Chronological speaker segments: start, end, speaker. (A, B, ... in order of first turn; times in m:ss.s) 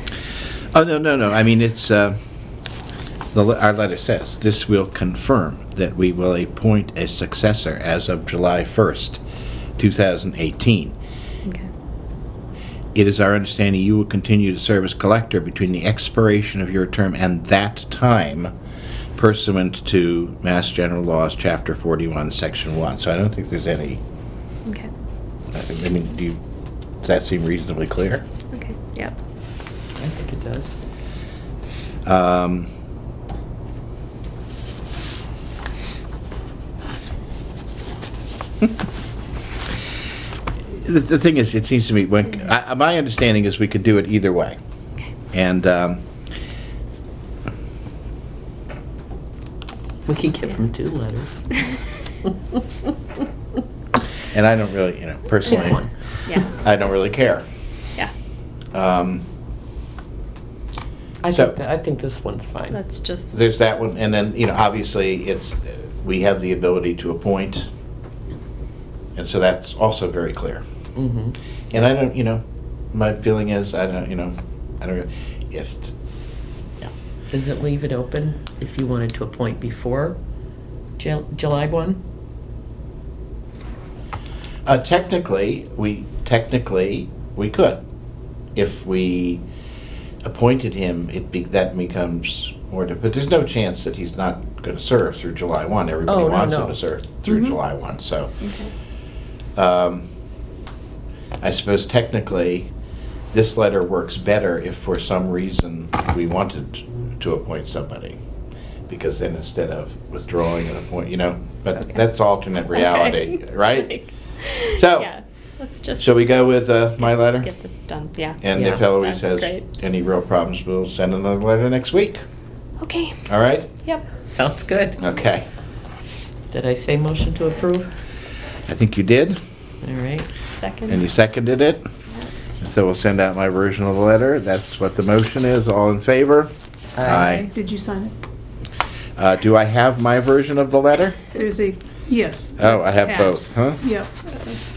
0:00.7-0:02.2 A
0:03.3-0:09.2 A
0:09.8-0:11.0 A
0:13.0-0:18.5 A
0:19.2-0:24.0 A
0:25.5-0:26.4 A
0:27.0-0:28.2 A
0:28.5-0:29.2 B
0:30.0-0:30.8 C
0:32.0-0:32.7 A
0:40.7-0:44.6 A
0:45.3-0:46.0 A
0:50.1-0:51.5 C
0:54.3-0:55.9 A
0:55.5-0:55.9 C
0:56.3-0:56.5 B
0:56.5-0:57.4 A
0:58.7-0:59.2 A
1:01.2-1:02.8 C
1:01.3-1:01.6 A
1:02.7-1:03.4 B
1:03.3-1:07.7 A
1:09.2-1:10.6 A
1:11.0-1:11.4 C
1:11.7-1:16.0 A
1:17.3-1:20.2 C
1:21.0-1:22.0 C
1:24.6-1:27.8 A
1:28.6-1:29.4 A
1:30.2-1:38.3 A
1:36.1-1:36.8 C
1:37.3-1:37.5 D
1:38.4-1:38.7 B
1:39.6-1:40.1 A
1:41.4-1:42.7 A
1:43.3-1:48.2 A
1:48.9-1:54.0 A
1:52.8-1:56.2 B
1:54.7-1:55.1 A
1:56.0-1:57.5 A
1:57.0-1:59.6 B
1:58.4-2:02.2 A
1:58.5-1:58.8 C
2:02.8-2:03.2 B
2:03.3-2:03.7 A
2:04.2-2:05.0 C
2:05.0-2:05.5 A
2:06.5-2:07.9 C
2:08.7-2:09.4 A
2:09.8-2:10.3 C
2:10.6-2:11.0 B
2:10.9-2:11.8 A
2:12.6-2:17.5 A
2:17.0-2:17.5 C
2:17.5-2:18.2 D
2:19.2-2:21.2 A
2:21.3-2:24.1 D
2:22.6-2:23.8 A